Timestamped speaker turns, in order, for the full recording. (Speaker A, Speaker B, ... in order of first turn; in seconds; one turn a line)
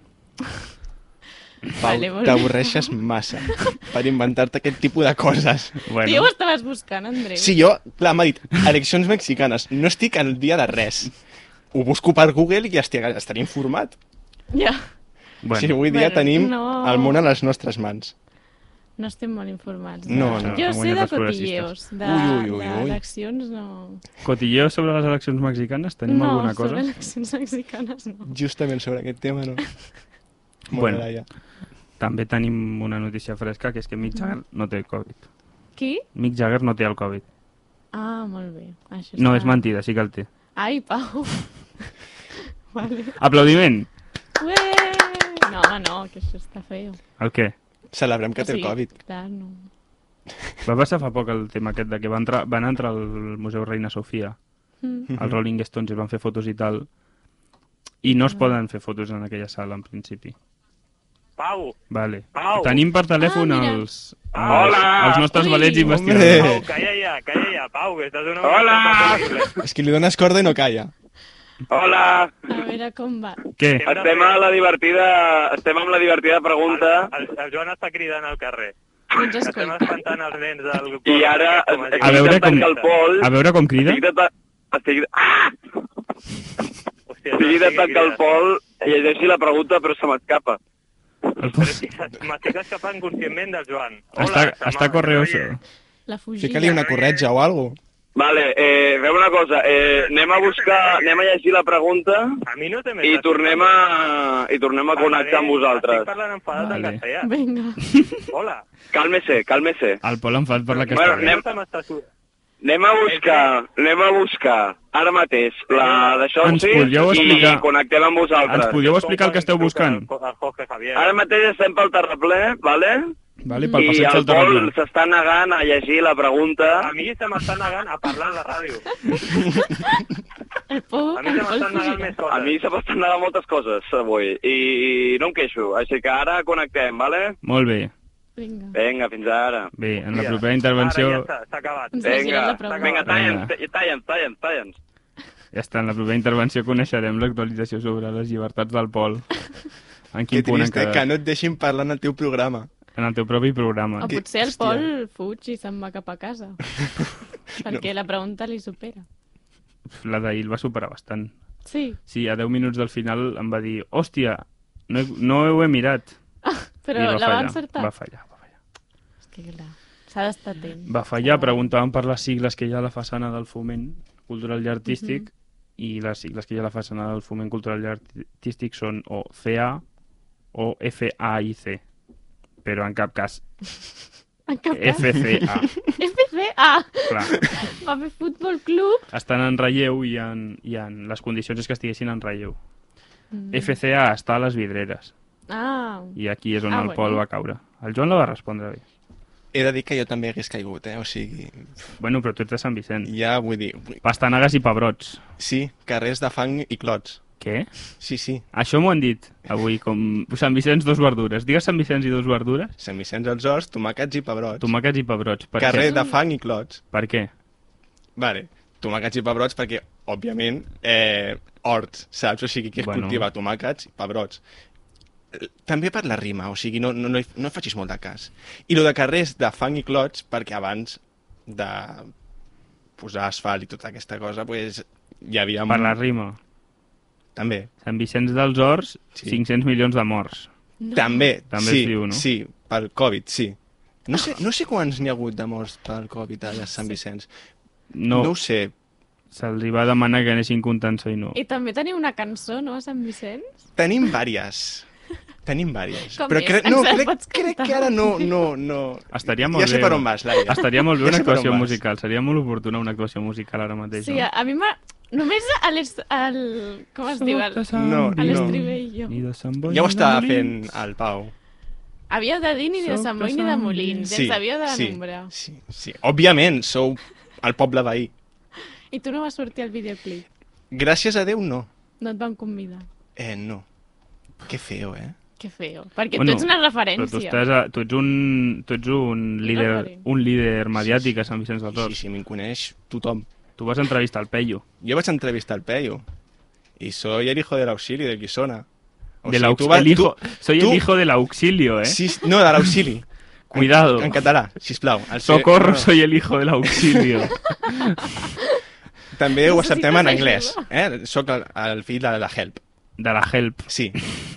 Speaker A: 1.8-5.8
Speaker B: 1.8-2.9
Speaker C: 5.8-6.3
Speaker B: 6.0-7.5
Speaker A: 7.3-11.1
Speaker A: 11.7-13.9
Speaker B: 14.5-14.8
Speaker C: 15.4-15.8
Speaker A: 15.5-18.1
Speaker B: 15.8-17.2
Speaker B: 19.0-24.0
Speaker A: 20.1-20.6
Speaker C: 20.1-21.7
Speaker A: 22.0-23.0
Speaker C: 24.2-26.9
Speaker B: 26.1-28.3
Speaker A: 28.2-29.6
Speaker C: 30.7-31.1
Speaker A: 30.7-31.2
Speaker C: 32.0-35.2
Speaker B: 35.8-36.0
Speaker C: 36.1-37.2
Speaker B: 37.9-39.6
Speaker C: 39.2-40.3
Speaker B: 40.6-41.5
Speaker B: 42.7-43.2
Speaker C: 43.2-43.9
Speaker B: 44.4-47.0
Speaker C: 47.2-47.5
Speaker A: 47.9-48.9
Speaker B: 48.4-49.6
Speaker C: 50.6-54.4
Speaker B: 54.8-55.1
Speaker A: 55.1-55.4
Speaker C: 55.1-56.9
Speaker C: 58.0-60.3
Speaker B: 58.0-58.5
Speaker D: 61.4-61.8
Speaker C: 61.9-66.5
Speaker D: 62.3-62.8
Speaker B: 63.2-63.9
Speaker E: 64.4-65.3
Speaker D: 64.5-64.8
Speaker B: 65.3-66.0
Speaker A: 65.9-66.7
Speaker D: 66.3-69.5
Speaker E: 68.4-69.5
Speaker A: 69.6-70.9
Speaker E: 71.7-72.3
Speaker B: 72.5-73.4
Speaker C: 73.6-73.9
Speaker D: 73.8-74.4
Speaker E: 73.8-77.1
Speaker D: 76.7-78.7
Speaker B: 79.1-80.0
Speaker D: 79.4-82.9
Speaker E: 81.0-85.5
Speaker C: 82.0-84.0
Speaker D: 87.1-88.2
Speaker E: 87.4-90.6
Speaker C: 91.4-91.8
Speaker D: 91.4-95.5
Speaker C: 94.1-95.6
Speaker B: 96.1-96.8
Speaker A: 96.4-97.8
Speaker D: 96.7-97.2
Speaker E: 98.1-102.4
Speaker D: 99.9-101.2
Speaker D: 102.5-103.7
Speaker E: 103.0-106.1
Speaker D: 104.9-107.3
Speaker C: 106.5-107.0
Speaker B: 107.2-108.0
Speaker D: 108.3-108.6
Speaker E: 108.9-110.0
Speaker C: 110.0-111.4
Speaker D: 110.7-112.0
Speaker E: 110.9-111.5
Speaker E: 112.6-118.8
Speaker D: 113.1-113.5
Speaker D: 115.7-117.6
Speaker C: 116.4-117.7
Speaker C: 118.4-120.1
Speaker D: 118.7-121.2
Speaker E: 121.0-123.1
Speaker C: 123.4-124.7
Speaker B: 123.5-123.9
Speaker E: 123.8-126.9
Speaker D: 126.8-129.0
Speaker B: 129.1-129.9
Speaker B: 130.7-132.1
Speaker D: 131.1-132.6
Speaker E: 132.3-137.3
Speaker C: 137.4-137.9
Speaker B: 138.4-138.8
Speaker E: 138.7-139.7
Speaker C: 139.7-141.3
Speaker D: 140.1-143.2
Speaker B: 141.9-143.0
Speaker E: 142.0-144.8
Speaker C: 143.0-143.5
Speaker C: 145.5-149.5
Speaker C: 150.1-151.0
Speaker A: 150.3-152.7
Speaker C: 152.9-154.2
Speaker B: 154.0-156.6
Speaker A: 154.1-154.8
Speaker B: 157.6-159.1
Speaker A: 157.6-157.9
Speaker C: 159.9-161.3
Speaker B: 161.7-162.0
Speaker C: 162.1-166.1
Speaker B: 166.4-167.9
Speaker C: 166.9-168.5
Speaker B: 169.3-171.6
Speaker C: 170.9-179.8
Speaker B: 174.9-175.2
Speaker C: 180.5-181.8
Speaker C: 182.6-183.4
Speaker B: 184.5-185.2
Speaker C: 184.7-185.7
Speaker B: 186.0-189.1
Speaker C: 187.1-187.4
Speaker C: 189.1-192.6
Speaker B: 193.3-193.8
Speaker C: 193.5-195.1
Speaker B: 195.5-196.2
Speaker C: 196.2-198.8
Speaker B: 196.7-197.2
Speaker A: 199.5-201.9
Speaker C: 202.0-203.1
Speaker A: 203.0-204.0
Speaker C: 204.0-205.2
Speaker A: 205.4-207.2
Speaker C: 207.4-207.7
Speaker A: 208.0-208.4
Speaker C: 208.5-212.7
Speaker A: 212.8-214.7
Speaker C: 214.6-216.0
Speaker A: 215.6-216.8
Speaker B: 215.7-216.1
Speaker C: 216.9-217.3
Speaker A: 218.2-224.4
Speaker C: 222.8-223.2
Speaker A: 225.3-232.1
Speaker A: 233.0-236.0
Speaker C: 235.7-236.4
Speaker A: 237.3-237.7
Speaker C: 237.8-240.5
Speaker B: 240.8-241.3
Speaker A: 240.9-247.3
Speaker C: 241.5-242.2
Speaker C: 247.9-248.3
Speaker A: 248.1-248.7
Speaker C: 249.3-251.4
Speaker B: 251.3-253.5
Speaker A: 253.8-254.9
Speaker A: 255.4-261.8
Speaker B: 256.1-258.4
Speaker C: 259.1-264.3
Speaker B: 263.9-269.1
Speaker C: 267.2-270.6
Speaker A: 267.7-268.6
Speaker A: 269.7-271.3
Speaker B: 272.1-275.3
Speaker C: 272.8-274.1
Speaker A: 274.1-278.1
Speaker B: 278.9-280.2
Speaker A: 280.7-281.7
Speaker B: 282.0-282.9
Speaker A: 283.1-283.6
Speaker A: 284.4-285.1
Speaker B: 285.4-287.4
Speaker C: 286.1-291.9
Speaker B: 289.4-290.0
Speaker A: 290.8-291.1
Speaker A: 291.7-293.3
Speaker C: 293.6-294.6
Speaker A: 294.8-296.0
Speaker A: 296.8-298.6
Speaker A: 299.2-300.8
Speaker C: 299.3-302.0
Speaker A: 301.8-305.9
Speaker C: 303.5-304.1
Speaker C: 305.2-308.2
Speaker A: 306.6-307.2
Speaker B: 307.6-308.5
Speaker A: 309.1-312.6
Speaker B: 309.4-310.7
Speaker C: 313.0-313.7
Speaker A: 313.7-314.0